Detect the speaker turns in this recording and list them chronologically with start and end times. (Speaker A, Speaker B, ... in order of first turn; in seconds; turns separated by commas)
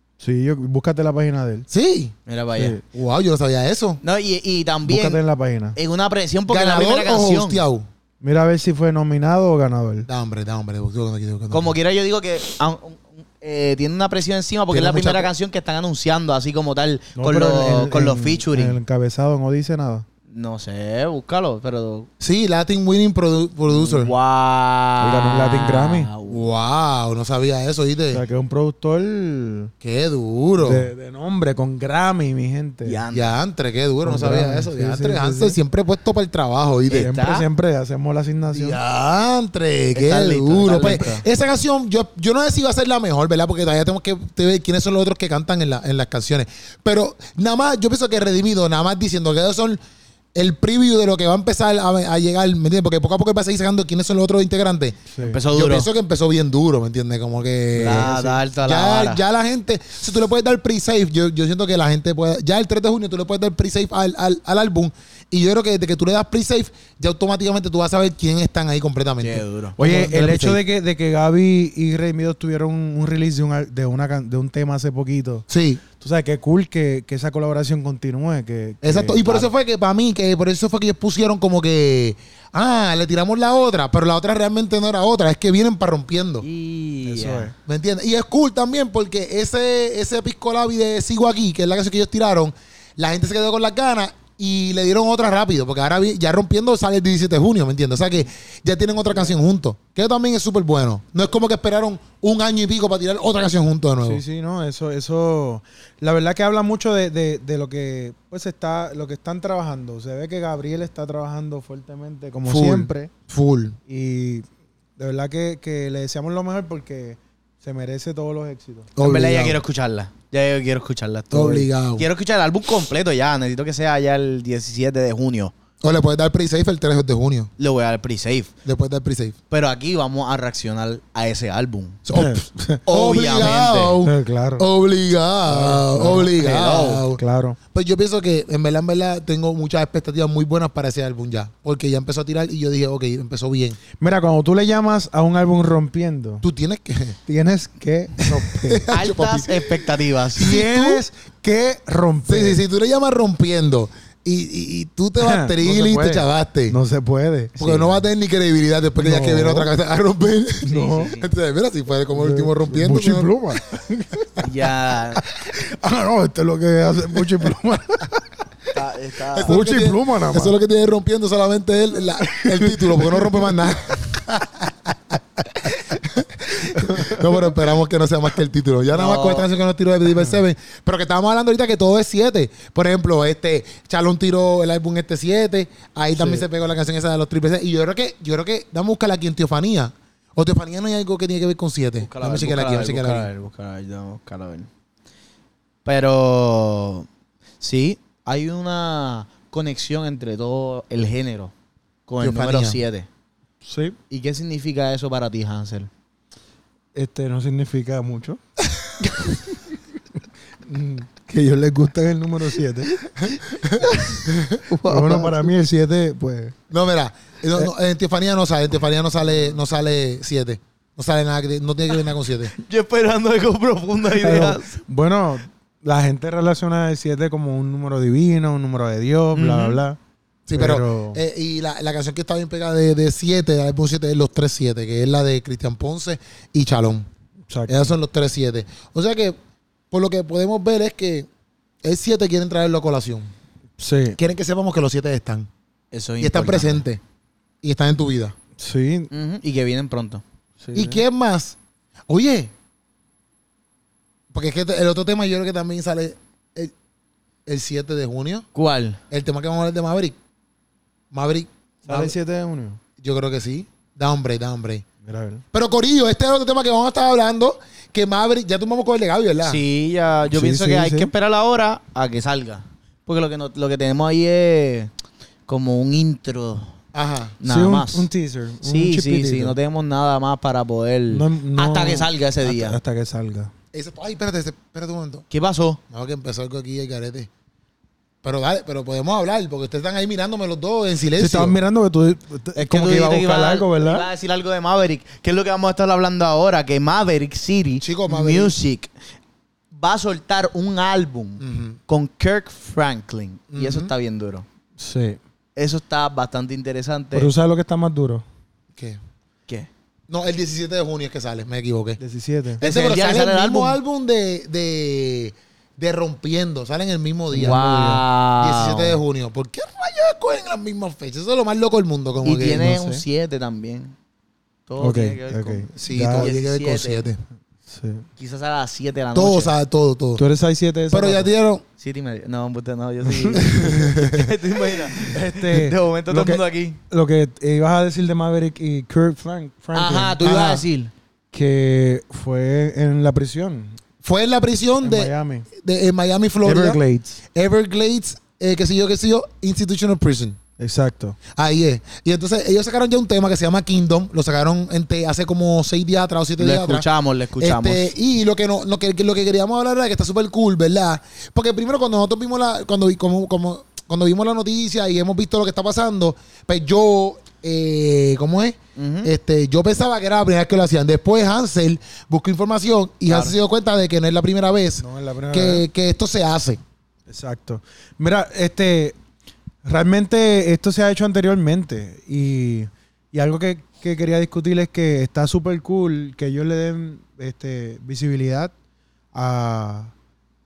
Speaker A: 0.2-1.6, Speaker B: 1.7-2.1, Speaker C: 2.3-2.8, Speaker B: 2.9-4.0, Speaker C: 4.0-5.2, Speaker A: 4.8-5.8, Speaker C: 5.8-7.6, Speaker B: 6.5-7.8, Speaker A: 8.2-10.1, Speaker B: 10.1-11.7, Speaker C: 11.5-18.8, Speaker B: 14.7-15.3, Speaker A: 17.1-20.1, Speaker C: 20.3-22.1, Speaker B: 22.2-24.1, Speaker C: 23.7-26.4, Speaker A: 25.0-26.1, Speaker B: 26.3-28.2, Speaker A: 28.1-29.7, Speaker B: 29.8-30.9, Speaker A: 30.6-33.0, Speaker C: 32.8-33.3, Speaker B: 33.1-37.1, Speaker A: 34.0-35.6, Speaker C: 36.9-37.5, Speaker A: 36.9-38.8, Speaker B: 38.5-49.8, Speaker C: 39.9-41.2, Speaker B: 50.3-70.6, Speaker A: 55.1-55.4, Speaker C: 55.2-55.9, Speaker C: 57.8-59.2, Speaker A: 57.8-58.4, Speaker C: 69.2-69.8, Speaker A: 69.8-75.5, Speaker B: 75.5-75.8, Speaker A: 76.0-79.3, Speaker B: 78.8-86.5, Speaker C: 86.4-87.5, Speaker A: 87.0-87.5, Speaker B: 87.6-104.2, Speaker A: 104.0-113.1, Speaker B: 112.5-113.8, Speaker A: 113.9-114.5, Speaker A: 115.0-118.9, Speaker B: 119.0-119.6, Speaker C: 119.0-125.5, Speaker B: 121.3-122.0, Speaker B: 125.8-127.5, Speaker C: 127.6-128.5, Speaker B: 128.7-129.4, Speaker C: 129.5-132.0, Speaker B: 132.1-137.2, Speaker A: 132.1-132.8, Speaker C: 132.9-134.0, Speaker A: 134.0-134.7, Speaker A: 135.5-136.3, Speaker C: 136.3-137.0, Speaker A: 137.2-137.6, Speaker B: 137.7-143.8, Speaker A: 144.0-146.4, Speaker B: 146.4-147.2, Speaker A: 147.2-148.9, Speaker B: 148.2-151.0, Speaker C: 148.9-150.5, Speaker A: 150.3-152.6, Speaker B: 152.3-156.8, Speaker A: 155.2-157.6, Speaker C: 157.6-158.0, Speaker B: 157.6-163.3, Speaker A: 159.0-159.7, Speaker A: 160.6-161.1, Speaker C: 160.7-161.3, Speaker A: 162.1-164.4, Speaker C: 164.4-165.2, Speaker A: 165.2-168.2, Speaker C: 168.7-169.6, Speaker B: 169.3-193.3, Speaker A: 169.4-170.6, Speaker A: 172.2-173.5, Speaker A: 176.7-177.3, Speaker C: 178.9-179.4, Speaker C: 192.0-194.7, Speaker C: 195.8-197.1, Speaker C: 197.6-201.5, Speaker C: 202.1-203.1, Speaker B: 202.2-202.8, Speaker A: 203.6-203.9, Speaker C: 204.1-205.9, Speaker A: 206.9-208.4, Speaker A: 209.2-209.6, Speaker A: 210.7-213.1, Speaker B: 213.2-214.6, Speaker C: 213.8-215.5, Speaker A: 214.8-216.5, Speaker B: 216.7-222.5, Speaker C: 222.5-224.8, Speaker A: 224.1-230.0, Speaker C: 229.3-229.8, Speaker B: 230.5-237.1, Speaker A: 230.6-231.2, Speaker A: 237.5-237.9, Speaker B: 237.7-239.4, Speaker B: 239.9-241.3, Speaker B: 241.8-243.3, Speaker A: 243.8-244.2, Speaker B: 244.2-245.5, Speaker C: 245.9-246.8, Speaker B: 246.2-247.0, Speaker B: 247.6-248.3, Speaker A: 248.6-249.1, Speaker C: 249.1-250.2, Speaker A: 250.6-251.0, Speaker B: 250.7-251.6, Speaker B: 252.1-252.5, Speaker B: 254.3-256.7, Speaker B: 257.4-258.4, Speaker C: 258.5-259.0, Speaker B: 259.1-260.1, Speaker B: 261.1-262.1, Speaker A: 261.9-262.8, Speaker B: 263.0-264.8, Speaker A: 265.0-265.4, Speaker B: 265.5-269.6, Speaker C: 269.4-274.9, Speaker A: 270.2-271.1, Speaker C: 275.5-276.7, Speaker B: 276.9-277.4, Speaker C: 277.4-278.1, Speaker A: 277.4-279.5, Speaker C: 278.6-282.8, Speaker A: 281.1-283.5, Speaker B: 283.7-285.2, Speaker C: 285.3-285.8, Speaker B: 285.9-287.3, Speaker B: 288.2-291.6, Speaker A: 291.2-294.1, Speaker C: 292.6-298.9, Speaker B: 297.8-298.5, Speaker C: 299.7-304.4, Speaker B: 301.4-301.8, Speaker B: 303.5-303.9, Speaker A: 304.8-305.2, Speaker C: 305.6-307.3, Speaker A: 307.1-308.2, Speaker B: 310.1-312.0, Speaker A: 312.0-312.6, Speaker B: 312.6-322.7, Speaker C: 312.6-313.8, Speaker A: 317.3-318.0, Speaker C: 317.3-319.0, Speaker C: 322.2-323.9, Speaker A: 322.6-323.0, Speaker C: 324.7-327.1, Speaker A: 324.8-326.3, Speaker B: 325.8-327.2, Speaker A: 327.7-328.1, Speaker C: 328.2-329.5, Speaker B: 329.1-330.2, Speaker A: 330.2-331.3, Speaker B: 330.9-331.6, Speaker C: 331.8-336.8, Speaker A: 333.1-333.9, Speaker B: 333.6-334.3, Speaker A: 335.0-340.2, Speaker C: 339.7-340.9, Speaker B: 340.2-340.6, Speaker A: 341.3-343.8, Speaker B: 344.0-346.8, Speaker A: 344.8-345.5, Speaker A: 346.4-347.2, Speaker B: 347.3-350.4, Speaker A: 350.6-351.2, Speaker B: 351.3-356.9, Speaker C: 356.4-357.9, Speaker B: 357.4-376.6, Speaker C: 368.8-369.1, Speaker C: 373.1-373.3, Speaker A: 374.8-375.6, Speaker A: 377.1-378.9, Speaker A: 379.6-388.5, Speaker A: 389.1-389.9